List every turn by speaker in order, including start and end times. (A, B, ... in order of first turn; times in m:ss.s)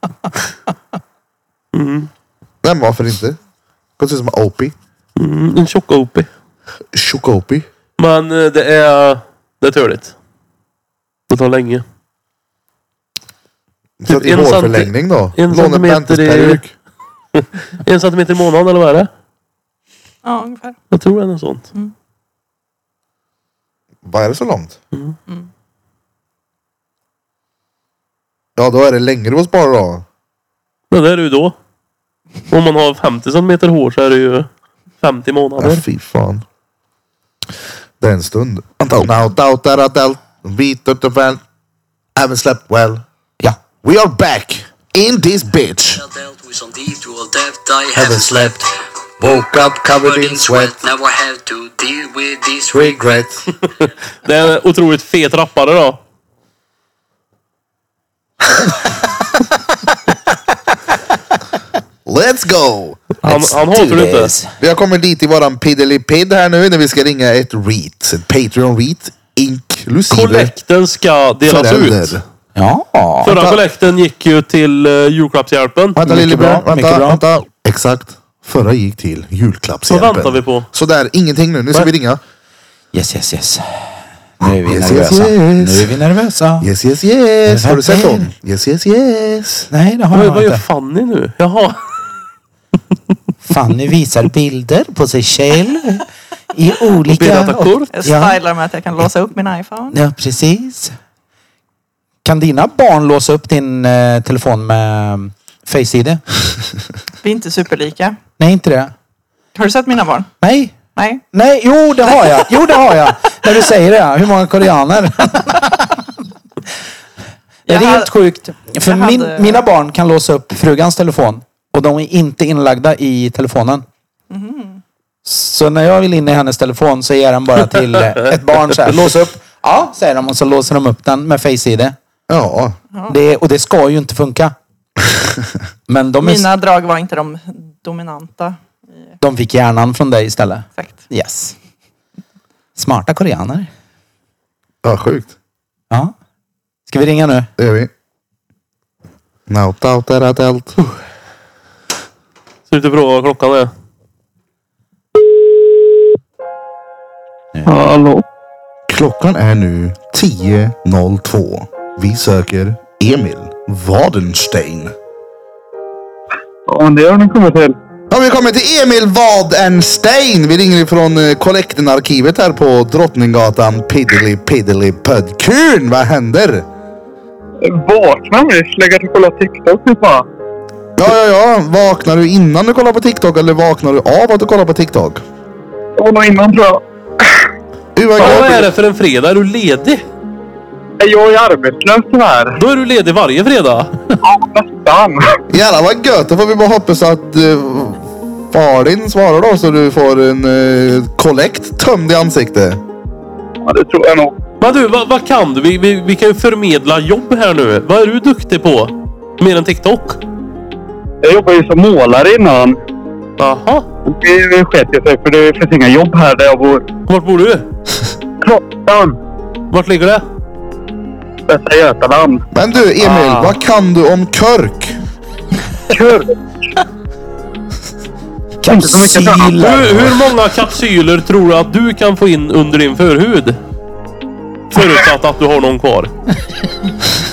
0:01.7-0:02.1 A
0:02.6-0:03.4 B
0:04.0-0:04.8 B
0:05.2-0:06.3 A
0:06.9-0:07.7 B
0:08.0-0:10.1 A
0:11.3-0:11.8 A
0:14.0-0:16.7 B
0:14.1-0:16.6 A
0:17.4-0:19.1 A
0:20.2-0:20.8 C
0:20.9-0:21.7 A
0:24.0-0:24.8 B
0:28.6-0:30.0 B
0:30.9-0:31.6 A
0:32.5-0:34.5 A
0:35.0-0:35.8 A
0:35.6-0:36.4 B
0:38.0-0:41.4 B
0:42.2-0:43.0 B
0:43.8-0:46.0 B
0:46.0-0:53.2 D
0:47.9-0:48.7 B
0:49.2-0:50.8 B
0:52.7-0:53.5 B
0:53.8-0:56.0 A
1:02.1-1:03.0 B
1:03.2-1:04.5 E
1:03.2-1:04.3 A
1:04.6-1:10.5 B
1:10.1-1:12.2 A
1:11.5-1:12.2 B
1:12.6-1:13.6 E
1:13.2-1:16.0 A
1:16.0-1:22.2 B
1:16.0-1:17.2 E
1:19.9-1:20.7 A
1:22.9-1:26.7 E
1:24.6-1:26.0 B
1:26.6-1:29.7 B
1:27.5-1:28.3 E
1:29.7-1:30.6 E
1:30.1-1:31.8 A
1:33.4-1:38.4 E
1:37.1-1:37.9 A
1:37.9-1:40.0 C
1:39.9-1:40.9 E
1:42.2-1:46.2 E
1:47.2-1:48.2 C
1:48.4-1:48.9 E
1:49.6-1:50.3 C
1:50.4-1:50.8 E
1:51.0-1:51.2 C
1:51.3-1:56.1 E
1:57.7-1:58.1 C
1:57.7-2:03.8 E
1:58.9-1:59.6 C
2:04.3-2:04.8 C
2:05.2-2:12.0 E
2:12.3-2:12.8 B
2:13.1-2:14.6 E
2:15.9-2:16.5 E
2:16.2-2:18.6 C
2:19.2-2:21.6 E
2:22.8-2:23.7 E
2:24.8-2:25.4 B
2:26.9-2:27.5 E
2:27.6-2:27.9 B
2:29.5-2:30.8 B
2:32.7-2:33.7 A
2:37.7-2:38.2 F
2:38.9-2:44.9 B
2:46.7-2:47.7 F
2:48.1-2:56.7 B
2:57.8-3:00.2 F
3:01.0-3:05.2 B
3:06.0-3:06.7 F
3:08.0-3:08.7 B
3:08.2-3:10.0 A
3:11.0-3:12.4 F
3:12.6-3:14.0 A
3:14.4-3:15.1 F
3:15.5-3:22.8 B
3:23.7-3:24.3 F
3:24.6-3:30.2 A
3:31.2-3:32.7 F
3:33.4-3:33.9 A
3:34.2-3:36.8 F
3:37.1-3:37.7 A
3:38.5-3:39.1 F
3:39.7-3:40.2 A
3:41.6-3:42.4 F
3:42.5-3:45.0 B
3:46.0-3:46.2 F
3:48.6-3:50.2 E
3:48.8-3:49.5 F
3:49.6-3:53.6 A
3:54.7-3:56.1 A